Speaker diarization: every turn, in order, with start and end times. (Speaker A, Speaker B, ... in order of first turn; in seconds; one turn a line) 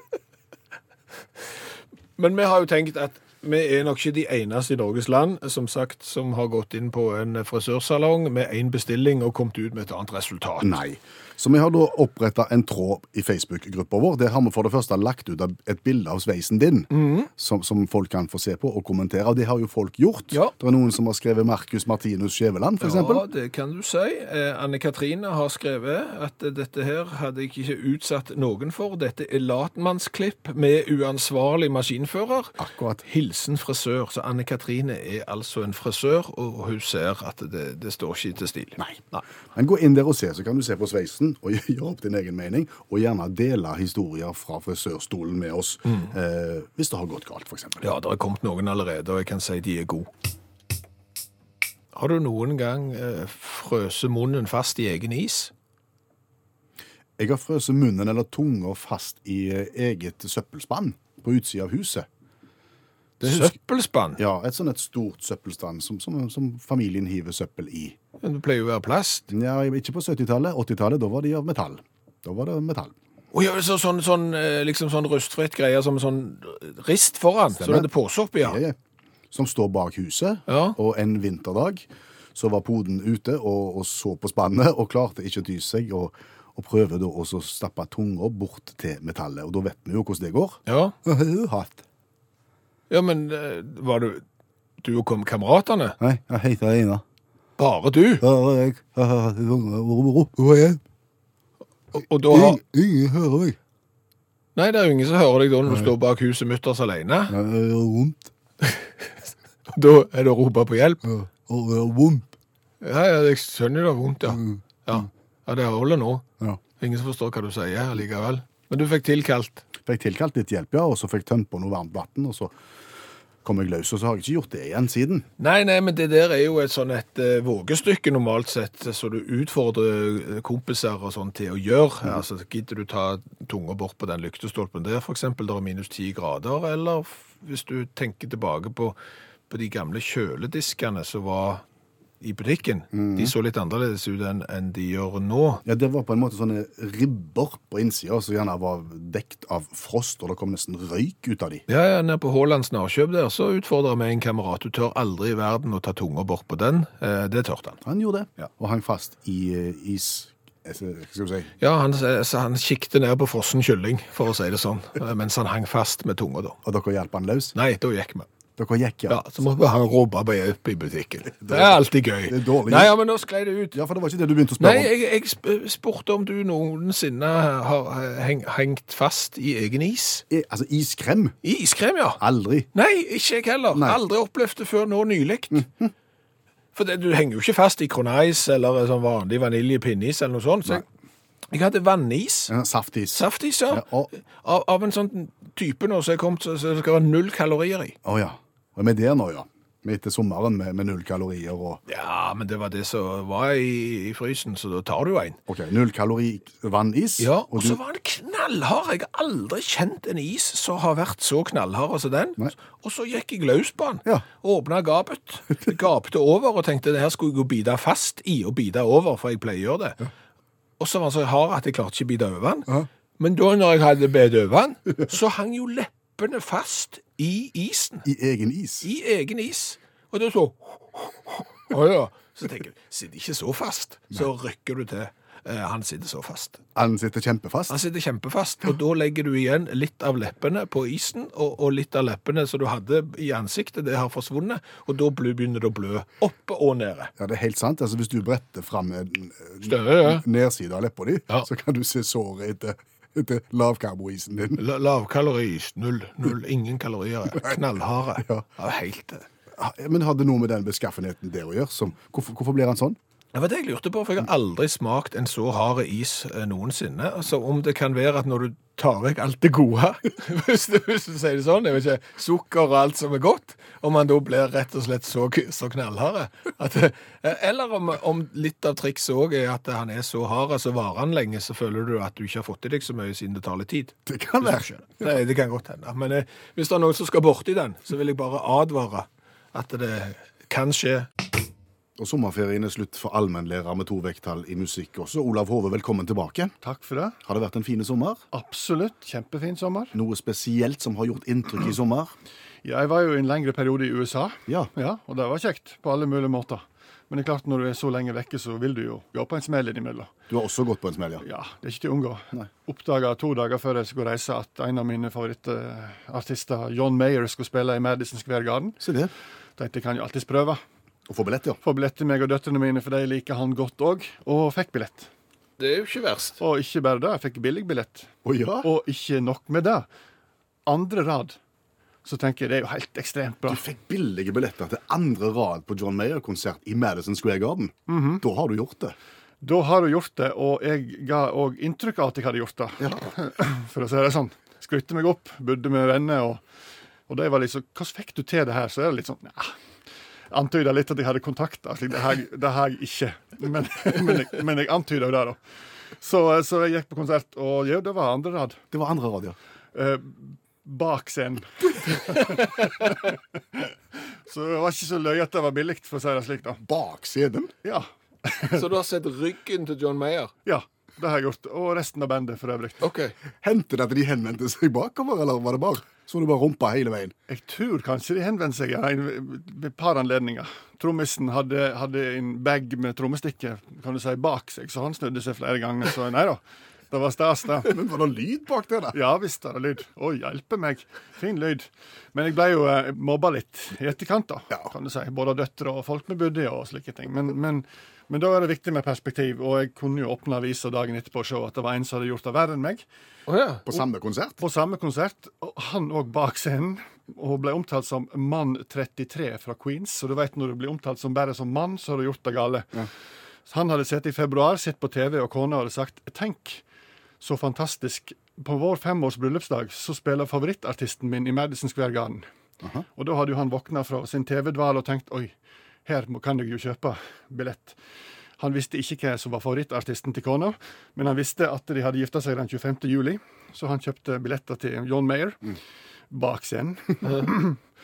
Speaker A: 2.2-10.8
Speaker B: 10.6-23.3
Speaker A: 16.9-17.3
Speaker A: 22.8-39.2
Speaker B: 32.6-33.0
Speaker B: 39.5-47.9
Speaker A: 47.8-50.1
Speaker A: 51.9-55.5
Speaker B: 57.2-62.1
Speaker B: 63.2-63.5
Speaker A: 63.2-64.2
Speaker B: 64.2-68.0
Speaker A: 68.2-69.3
Speaker B: 69.3-72.9
Speaker A: 73.3-78.6
Speaker B: 77.5-78.8
Speaker B: 79.3-91.8
Speaker A: 80.5-80.8
Speaker A: 90.7-91.0
Speaker A: 92.9-94.2
Speaker A: 94.8-96.0
Speaker B: 96.0-97.0
Speaker A: 97.6-98.2
Speaker B: 98.2-100.8
Speaker A: 101.9-102.6
Speaker B: 102.3-103.6
Speaker A: 104.6-107.4
Speaker B: 107.3-108.3
Speaker A: 108.6-109.1
Speaker A: 109.7-111.1
Speaker B: 111.0-112.3
Speaker A: 112.8-116.2
Speaker B: 114.4-115.0
Speaker A: 116.8-119.7
Speaker B: 119.8-122.5
Speaker B: 123.4-125.3
Speaker A: 125.4-139.0
Speaker A: 139.5-141.6
Speaker A: 142.2-145.6
Speaker B: 142.9-143.3
Speaker B: 145.7-151.6
Speaker A: 151.7-157.8
Speaker B: 157.8-161.5
Speaker A: 161.6-166.6
Speaker B: 166.6-167.6
Speaker A: 167.6-168.3
Speaker B: 168.6-169.2
Speaker A: 169.1-173.8
Speaker B: 171.4-172.9
Speaker B: 173.7-174.9
Speaker A: 174.6-180.2
Speaker B: 180.3-181.4
Speaker A: 181.4-182.2
Speaker B: 182.2-182.7
Speaker A: 182.7-185.7
Speaker B: 183.7-184.0
Speaker B: 185.5-185.9
Speaker A: 186.8-190.8
Speaker A: 191.5-192.5
Speaker B: 192.5-194.1
Speaker A: 193.1-198.0
Speaker B: 198.0-201.8
Speaker A: 201.9-205.4
Speaker B: 205.5-207.8
Speaker A: 207.2-220.0
Speaker A: 220.8-228.1
Speaker B: 228.1-228.9
Speaker A: 228.8-236.6
Speaker B: 236.8-237.8
Speaker A: 237.7-247.1
Speaker B: 247.2-254.6
Speaker A: 249.6-250.2
Speaker A: 254.6-259.3
Speaker B: 259.6-263.0
Speaker A: 263.3-291.1
Speaker B: 284.1-285.1
Speaker B: 292.0-296.5
Speaker C: 296.6-297.2
Speaker B: 297.2-298.2
Speaker C: 298.3-299.9
Speaker B: 299.9-302.1
Speaker C: 302.6-310.1
Speaker B: 310.3-311.2
Speaker C: 311.2-318.8
Speaker B: 318.8-319.1
Speaker C: 319.6-320.6
Speaker B: 321.1-321.6
Speaker C: 321.6-325.1
Speaker A: 325.6-326.4
Speaker C: 326.4-328.1
Speaker B: 328.2-328.7
Speaker C: 328.6-329.9
Speaker C: 330.7-331.4
Speaker C: 332.1-333.6
Speaker B: 333.5-338.9
Speaker C: 337.9-338.2
Speaker C: 339.4-346.4
Speaker B: 342.8-343.1
Speaker C: 347.1-349.5
Speaker C: 350.3-355.4
Speaker C: 356.0-358.6
Speaker B: 358.7-359.4
Speaker C: 359.7-366.6
Speaker B: 366.6-367.5
Speaker C: 367.6-368.6
Speaker A: 368.5-370.3
Speaker C: 370.5-372.8
Speaker A: 372.8-373.1
Speaker B: 373.4-377.1
Speaker C: 377.3-387.7
Speaker B: 387.6-389.0
Speaker C: 388.9-402.9
Speaker A: 403.3-403.6
Speaker B: 403.7-404.4
Speaker C: 404.4-412.9
Speaker C: 413.5-416.6
Speaker C: 417.2-422.2
Speaker C: 423.0-425.3
Speaker C: 425.9-427.8
Speaker C: 428.4-435.6
Speaker C: 436.1-437.6